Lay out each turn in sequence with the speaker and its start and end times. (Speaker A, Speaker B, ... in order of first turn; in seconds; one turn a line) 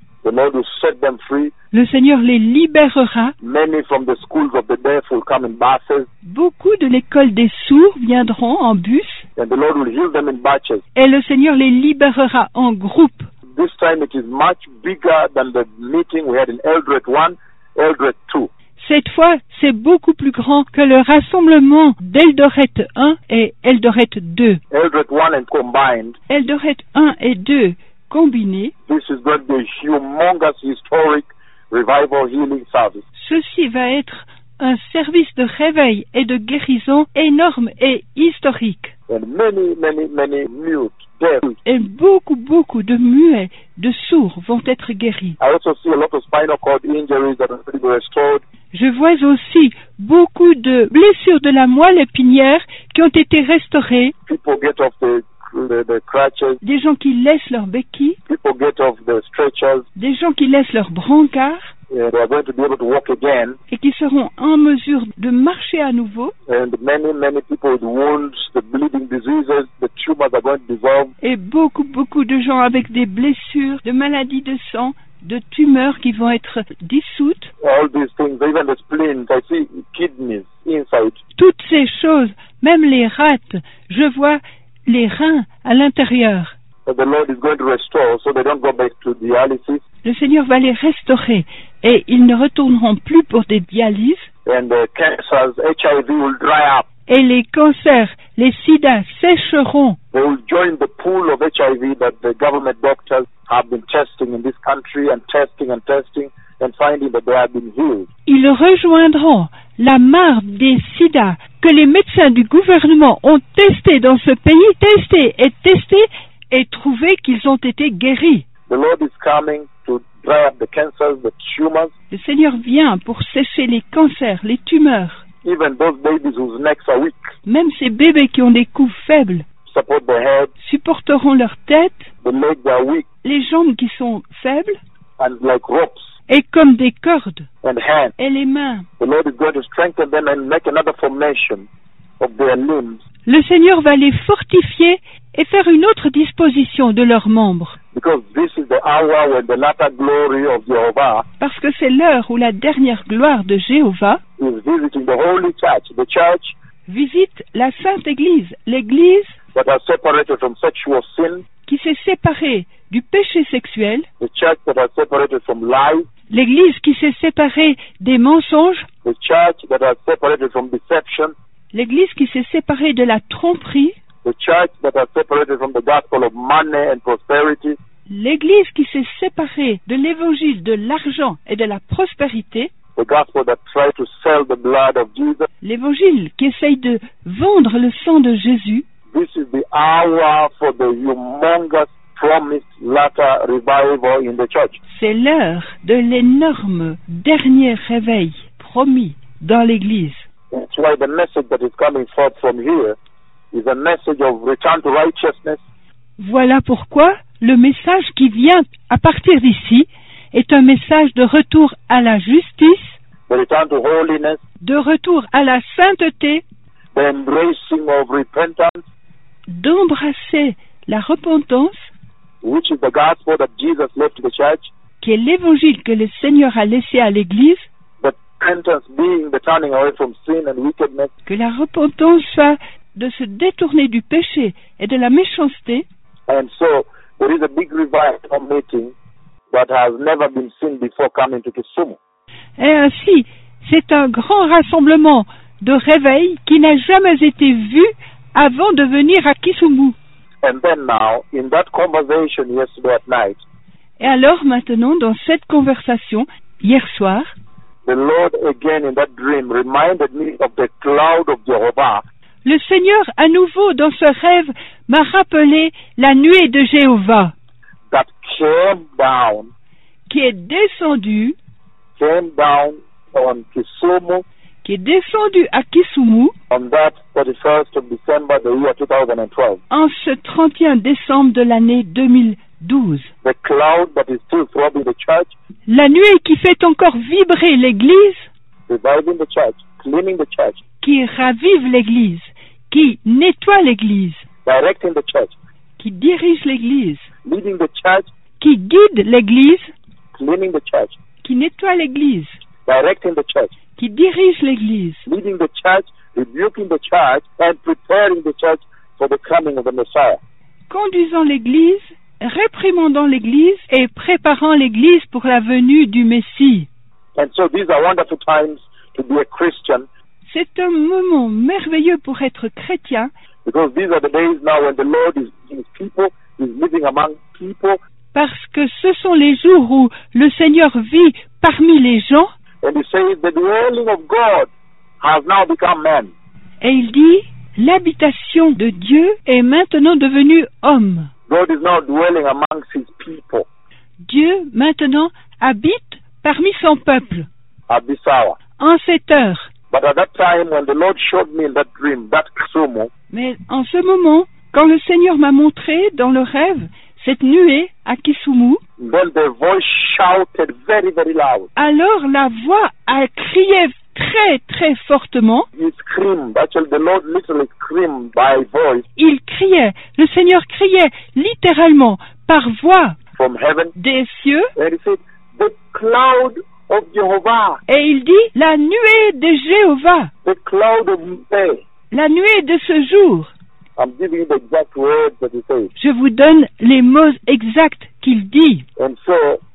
Speaker A: 0.2-1.5
Speaker B: 1.7-3.3
Speaker A: 3.4-6.1
Speaker B: 6.2-9.2
Speaker A: 9.4-10.8
Speaker B: 10.9-13.3
Speaker A: 13.5-18.5
Speaker B: 18.8-24.6
Speaker A: 24.7-26.2
Speaker B: 26.3-28.7
Speaker A: 28.9-33.0
Speaker B: 33.1-38.9
Speaker A: 39.1-41.6
Speaker B: 41.6-45.4
Speaker A: 45.4-48.4
Speaker B: 48.7-54.1
Speaker A: 54.3-56.6
Speaker B: 56.6-58.2
Speaker A: 58.3-59.9
Speaker B: 60.0-61.7
Speaker A: 61.9-63.6
Speaker B: 63.7-66.3
Speaker A: 66.5-71.1
Speaker B: 71.2-77.5
Speaker A: 77.6-81.2
Speaker B: 81.4-86.5
Speaker A: 86.9-89.8
Speaker B: 90.0-94.3
Speaker A: 94.5-96.9
Speaker B: 97.1-100.0
Speaker A: 100.1-108.1
Speaker B: 108.3-118.5
Speaker A: 118.7-121.9
Speaker B: 122.1-125.2
Speaker A: 125.4-127.3
Speaker B: 127.5-129.4
Speaker A: 129.7-130.5
Speaker B: 130.6-132.1
Speaker A: 132.2-133.1
Speaker B: 133.2-134.8
Speaker A: 135.2-136.1
Speaker B: 136.3-137.5
Speaker A: 137.6-138.1
Speaker B: 138.2-138.9
Speaker A: 139.0-141.7
Speaker A: 142.2-143.0
Speaker B: 143.3-147.8
Speaker A: 147.9-151.2
Speaker B: 151.4-154.2
Speaker A: 154.4-156.5
Speaker B: 156.9-159.4
Speaker A: 159.6-161.4
Speaker B: 161.7-164.1
Speaker A: 164.2-166.1
Speaker B: 166.3-168.9
Speaker A: 169.1-171.3
Speaker B: 171.7-174.0
Speaker A: 174.2-177.8
Speaker B: 178.1-182.7
Speaker A: 183.0-185.5
Speaker B: 185.6-188.9
Speaker A: 189.1-194.8
Speaker B: 194.9-200.3
Speaker A: 200.5-203.0
Speaker A: 203.5-205.6
Speaker B: 206.2-213.0
Speaker A: 213.3-214.4
Speaker B: 214.6-216.4
Speaker A: 216.9-218.8
Speaker B: 219.5-221.9
Speaker A: 222.4-224.7
Speaker B: 225.0-227.7
Speaker A: 228.0-231.1
Speaker B: 231.3-235.9
Speaker A: 236.3-238.9
Speaker A: 239.5-242.0
Speaker B: 242.6-250.0
Speaker A: 250.4-253.4
Speaker B: 254.0-257.3
Speaker A: 257.9-262.0
Speaker B: 262.4-267.3
Speaker A: 267.9-269.5
Speaker B: 270.1-271.4
Speaker A: 272.0-274.2
Speaker B: 274.6-276.4
Speaker A: 276.5-279.6
Speaker B: 279.7-283.1
Speaker A: 283.2-285.3
Speaker B: 285.7-288.3
Speaker A: 288.7-290.6
Speaker B: 290.8-294.2
Speaker A: 294.4-295.3
Speaker B: 295.8-297.1
Speaker A: 297.2-298.1
Speaker B: 298.4-299.7
Speaker A: 300.1-301.0
Speaker B: 301.2-302.4
Speaker A: 302.7-303.5
Speaker B: 303.8-305.1
Speaker A: 305.1-310.2
Speaker B: 310.7-316.7
Speaker A: 317.2-319.9
Speaker B: 320.3-323.1
Speaker A: 323.4-327.8
Speaker B: 328.1-332.3
Speaker A: 332.6-334.5
Speaker A: 335.0-336.1
Speaker B: 336.6-341.1
Speaker A: 341.3-343.5
Speaker B: 344.0-347.3
Speaker A: 347.7-348.4
Speaker B: 348.6-349.5
Speaker A: 349.7-352.9
Speaker B: 353.1-358.6
Speaker A: 358.8-361.5
Speaker B: 361.6-365.5
Speaker A: 365.6-368.9
Speaker B: 369.0-373.0
Speaker A: 373.2-373.7
Speaker B: 373.8-374.5
Speaker A: 374.6-377.6
Speaker B: 377.7-380.1
Speaker A: 380.2-381.6
Speaker B: 381.9-383.3
Speaker A: 383.8-385.7
Speaker B: 385.8-388.7
Speaker A: 388.8-389.4